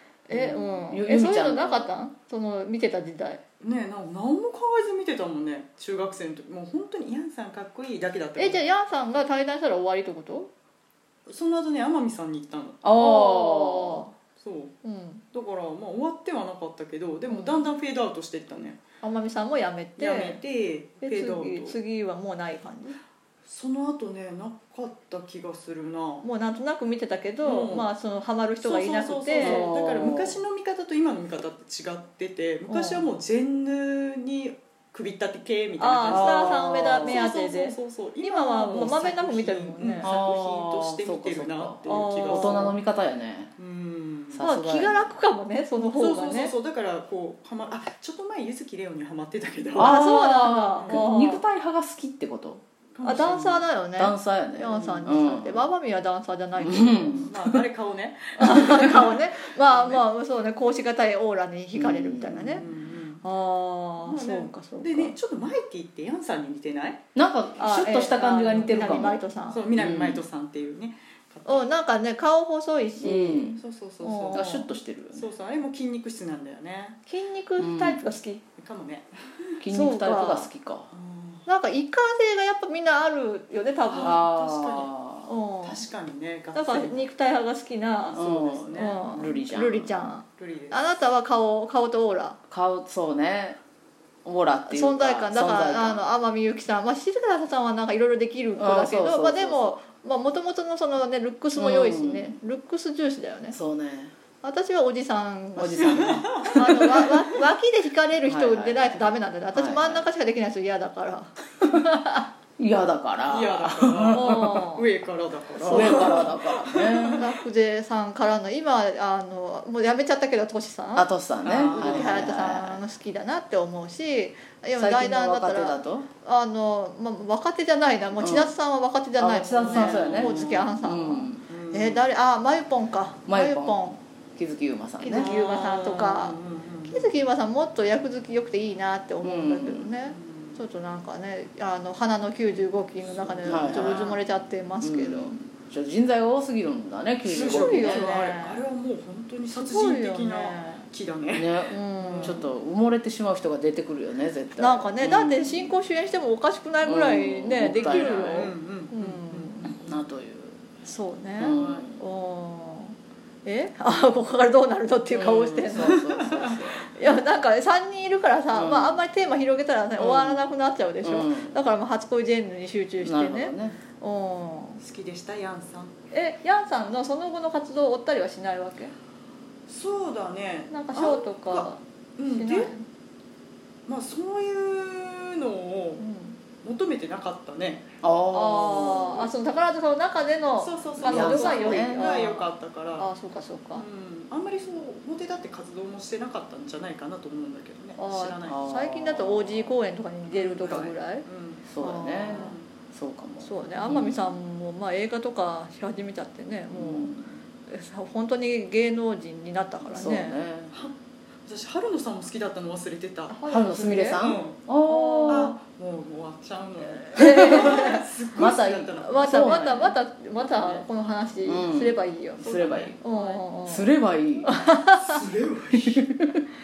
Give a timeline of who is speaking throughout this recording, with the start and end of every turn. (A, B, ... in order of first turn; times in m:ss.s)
0:00.3-0:03.4 A
0:00.3-0:01.9 B
0:03.6-0:08.6 C
0:08.4-0:10.5 A
0:11.3-0:12.8 C
0:12.8-0:14.0 B
0:13.0-0:14.1 A
0:14.4-0:14.7 C
0:14.8-0:15.2 A
0:15.3-0:18.8 C
0:17.3-0:17.6 A
0:19.0-0:20.4 A
0:20.0-0:21.8 C
0:21.0-0:23.0 A
0:23.4-0:26.2 C
0:26.2-0:29.7 A
0:27.4-0:27.9 C
0:28.6-0:42.8 C
0:29.4-0:30.4 B
0:32.7-0:33.1 A
0:35.8-0:40.1 A
0:36.1-0:37.2 B
0:40.0-0:43.5 B
0:41.8-0:42.8 A
0:43.6-0:44.4 C
0:44.3-0:45.0 B
0:44.4-0:46.5 A
0:45.8-0:50.0 C
0:49.7-0:52.6 B
0:49.8-0:51.4 A
0:50.8-0:51.0 C
0:52.9-0:53.7 C
0:53.0-0:57.3 A
0:54.0-0:55.6 B
0:54.7-0:55.0 C
0:56.6-0:57.6 B
0:57.2-1:00.0 C
0:58.4-1:02.6 A
1:01.7-1:02.6 B
1:02.5-1:03.2 C
1:03.2-1:05.1 A
1:04.0-1:07.0 C
1:07.1-1:09.2 B
1:07.6-1:09.7 A
1:08.7-1:11.7 C
1:09.7-1:10.2 B
1:11.4-1:14.7 A
1:13.0-1:13.6 B
1:13.6-1:14.6 C
1:14.3-1:15.3 B
1:15.1-1:17.0 C
1:17.0-1:18.4 A
1:17.6-1:18.0 B
1:18.6-1:19.5 C
1:19.6-1:20.9 B
1:19.7-1:20.5 A
1:20.9-1:21.4 C
1:21.4-1:24.2 A
1:23.9-1:24.9 C
1:24.0-1:25.3 B
1:25.3-1:25.8 A
1:25.6-1:27.0 C
1:26.5-1:32.4 A
1:28.1-1:29.0 C
1:28.1-1:29.9 B
1:30.4-1:30.9 C
1:32.5-1:33.6 B
1:34.2-1:36.0 B
1:34.7-1:43.6 A
1:38.6-1:39.7 B
1:41.5-1:42.4 B
1:43.5-1:44.1 B
1:44.4-1:52.3 A
1:45.6-1:46.9 B
1:45.9-1:47.2 C
1:48.2-1:50.0 B
1:52.6-1:54.6 B
1:53.2-1:57.2 C
1:54.1-1:54.8 A
1:55.6-1:56.2 A
1:55.6-1:57.2 B
1:57.2-2:01.1 A
2:01.0-2:02.8 B
2:01.4-2:02.3 C
2:01.7-2:14.0 A
2:04.7-2:06.1 B
2:08.2-2:08.5 B
2:09.2-2:11.4 B
2:09.6-2:10.7 C
2:11.5-2:12.1 C
2:13.3-2:13.8 B
2:14.4-2:15.3 B
2:15.0-2:16.4 A
2:15.1-2:17.1 C
2:16.9-2:25.4 A
2:19.2-2:19.9 B
2:20.0-2:20.6 C
2:23.0-2:24.2 C
2:23.4-2:24.2 B
2:24.8-2:28.1 B
2:27.2-2:32.4 C
2:27.5-2:28.6 A
2:29.5-2:30.9 A
2:31.3-2:35.7 B
2:31.7-2:32.5 A
2:34.6-2:39.8 A
2:36.8-2:38.5 B
2:37.6-2:40.0 C
2:39.8-2:40.6 B
2:40.8-2:46.0 A
2:41.4-2:42.0 B
2:41.4-2:41.8 C
2:45.1-2:46.9 B
2:45.7-2:46.8 C
2:46.9-2:54.8 A
2:48.5-2:49.0 B
2:50.0-2:50.5 B
2:51.0-2:51.6 B
2:53.0-2:53.8 B
2:54.8-2:55.9 C
2:56.1-2:58.9 A
2:59.7-3:02.7 C
3:00.7-3:02.8 A
3:03.9-3:06.0 C
3:06.0-3:06.4 A
3:06.6-3:07.8 C
3:08.0-3:09.3 B
3:08.3-3:13.8 A
3:10.6-3:13.1 C
3:11.0-3:12.0 B
3:13.7-3:18.6 C
3:18.0-3:21.3 A
3:18.4-3:19.8 B
3:20.3-3:21.6 C
3:21.7-3:24.3 B
3:21.8-3:22.5 A
3:22.3-3:22.7 C
3:23.4-3:30.4 A
3:26.7-3:27.3 B
3:29.9-3:30.7 B
3:30.7-3:33.4 C
3:33.3-3:34.3 A
3:33.5-3:35.5 B
3:34.2-3:34.6 C
3:34.8-3:35.6 A
3:35.3-3:39.7 C
3:37.1-3:42.5 A
3:37.2-3:40.0 B
3:40.4-3:40.8 C
3:41.4-3:43.0 B
3:42.4-3:43.4 C
3:43.0-3:43.9 A
3:43.6-3:44.5 B
3:44.4-3:45.2 A
3:45.0-3:46.0 C
3:45.8-3:46.4 B